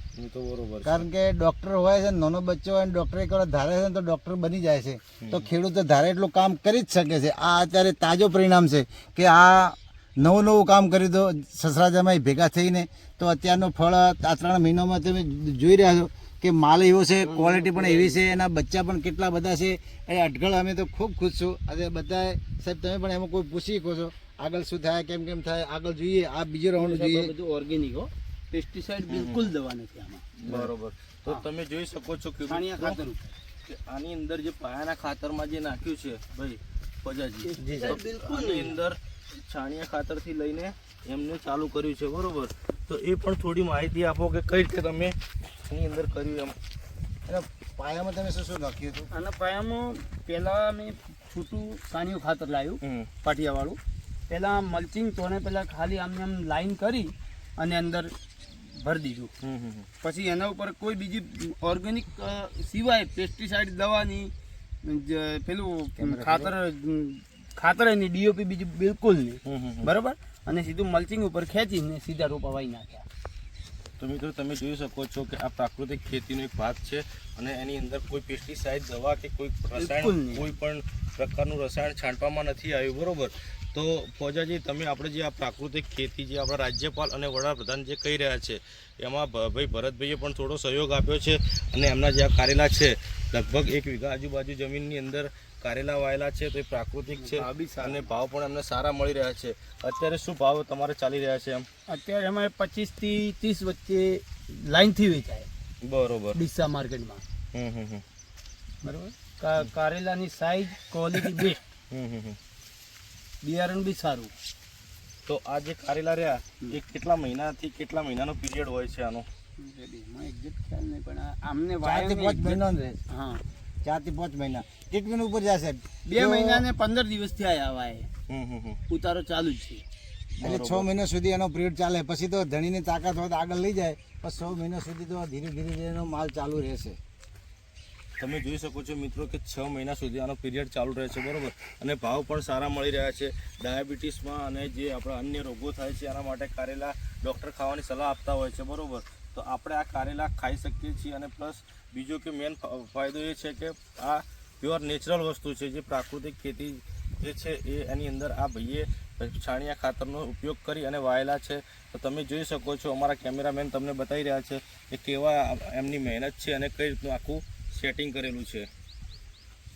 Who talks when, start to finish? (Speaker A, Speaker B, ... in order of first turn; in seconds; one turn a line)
Speaker A: 0.1-1.1
Speaker B: 0.8-27.3
Speaker C: 17.2-18.2
Speaker C: 26.8-30.7
Speaker A: 29.1-29.5
Speaker A: 30.4-33.0
Speaker C: 32.5-33.3
Speaker A: 33.6-46.5
Speaker C: 37.5-38.8
Speaker B: 47.2-49.1
Speaker C: 49.1-58.1
Speaker A: 52.8-53.1
Speaker C: 58.7-59.3
Speaker A: 59.4-59.9
Speaker C: 60.0-64.3
Speaker C: 64.8-73.0
Speaker B: 66.0-66.5
Speaker A: 69.5-69.9
Speaker A: 74.0-101.7
Speaker C: 79.7-80.5
Speaker C: 97.2-98.0
Speaker C: 101.9-105.5
Speaker A: 105.8-106.4
Speaker C: 106.3-107.2
Speaker A: 107.5-108.0
Speaker C: 108.8-111.6
Speaker A: 111.9-112.4
Speaker C: 113.4-114.3
Speaker A: 115.2-119.3
Speaker C: 119.6-123.4
Speaker B: 121.8-123.0
Speaker B: 123.8-126.7
Speaker C: 126.0-128.1
Speaker A: 128.3-128.8
Speaker C: 128.9-129.8
Speaker A: 130.4-130.9
Speaker B: 130.4-137.0
Speaker A: 138.2-168.7